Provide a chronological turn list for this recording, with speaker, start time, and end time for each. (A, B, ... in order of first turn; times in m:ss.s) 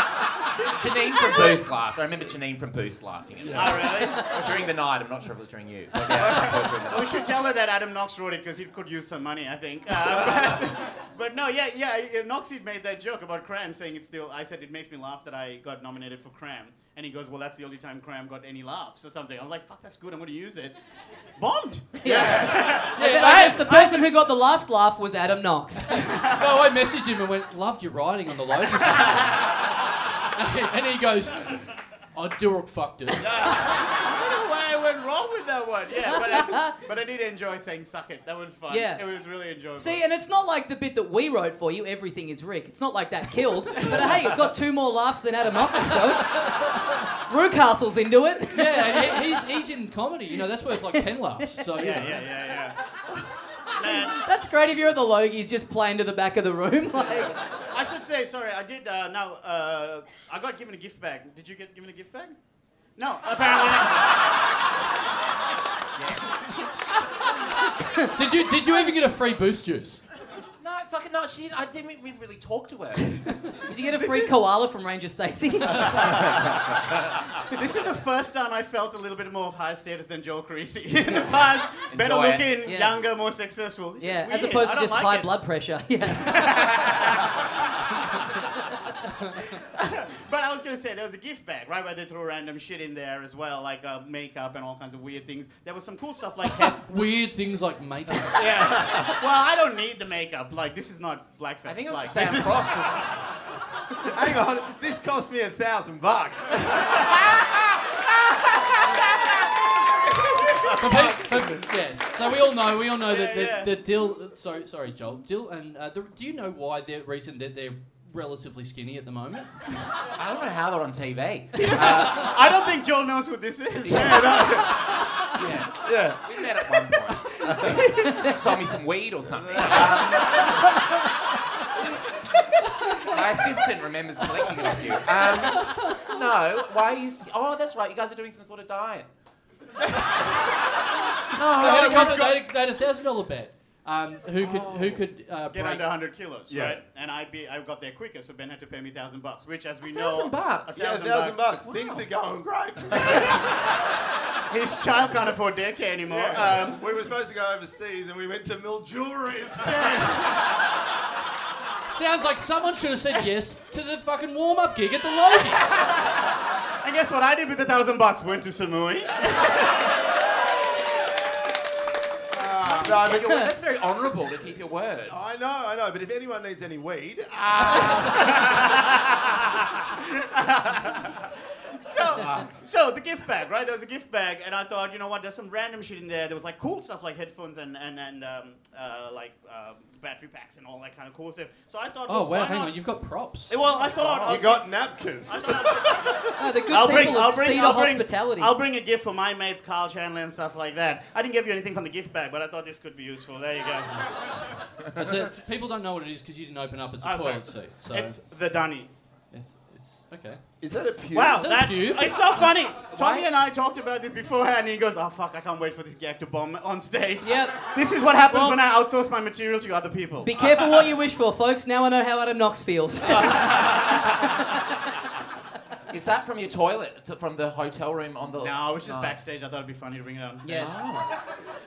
0:00.7-0:07.3 A
0:01.2-0:01.6 B
0:03.4-0:03.8 C
0:03.5-0:04.3 B
0:06.1-0:20.8 B
0:10.1-0:10.5 C
0:21.4-0:24.2 B
0:22.0-0:26.0 D
0:22.0-0:22.9 C
0:22.9-0:23.6 E
0:26.0-0:26.5 B
0:26.2-0:29.4 E
0:28.9-0:29.4 B
0:30.3-0:33.4 E
0:33.4-0:40.0 B
0:36.0-0:36.8 D
0:38.7-0:39.0 D
0:39.8-0:49.3 D
0:43.7-0:44.2 B
0:46.3-0:46.6 E
0:48.5-0:52.2 E
0:51.8-0:54.2 B
0:53.8-0:57.3 D
0:57.0-1:02.4 B
1:03.0-1:04.2 B
1:08.1-1:10.0 E
1:10.6-1:13.3 A
1:13.7-1:16.3 D
1:13.9-1:14.4 B
1:15.8-1:16.3 B
1:16.0-1:17.2 A
1:17.5-1:25.4 B
1:21.7-1:22.6 A
1:22.6-1:23.0 D
1:24.0-1:26.9 D
1:26.1-1:28.2 B
1:29.5-1:36.8 B
1:36.8-1:38.8 E
1:38.2-1:42.8 B
1:41.6-1:43.1 A
1:44.0-1:46.8 C
1:46.7-1:47.1 B
1:50.8-1:59.7 E
1:53.0-1:53.8 B
2:00.2-2:02.6 A
2:01.5-2:04.8 B
2:03.8-2:04.1 A
2:04.0-2:04.8 C
2:05.3-2:10.6 A
2:05.8-2:06.4 C
2:07.5-2:07.8 C
2:07.6-2:08.2 B
2:09.6-2:10.1 C
2:13.0-2:19.1 A
2:15.5-2:16.0 E
2:21.3-2:22.3 A
2:21.4-2:22.5 C
2:21.5-2:25.8 E
2:24.4-2:25.0 A
2:25.5-2:31.5 B
2:26.5-2:26.8 C
2:29.9-2:30.7 A
2:30.8-2:33.5 C
2:31.6-2:32.0 A
2:32.9-2:33.5 B
2:34.5-2:36.8 B
2:36.1-2:40.4 C
2:41.9-2:45.8 E
2:45.7-2:46.3 B
2:46.8-2:49.7 B
2:52.3-2:53.4 B
2:52.6-2:55.2 A
2:52.7-2:53.5 C
2:52.9-2:53.4 D
2:55.1-2:58.6 C
2:57.9-3:01.3 B
3:01.8-3:12.7 B
3:02.1-3:02.5 C
3:12.1-3:13.5 E
3:13.5-3:14.6 B
3:13.6-3:14.4 A
3:14.2-3:16.0 C
3:15.3-3:24.3 B
3:16.4-3:18.6 D
3:24.9-3:28.2 E
3:27.0-3:28.9 B
3:29.3-3:30.4 E
3:30.6-3:31.5 C
3:31.1-3:40.4 B
3:31.3-3:32.1 E
3:32.3-3:33.3 A
3:37.2-3:37.7 D
3:38.3-3:38.6 D
3:40.2-3:43.7 D
3:45.9-3:49.2 A
3:48.4-3:50.7 B
3:50.4-3:50.7 D
3:50.6-3:51.1 A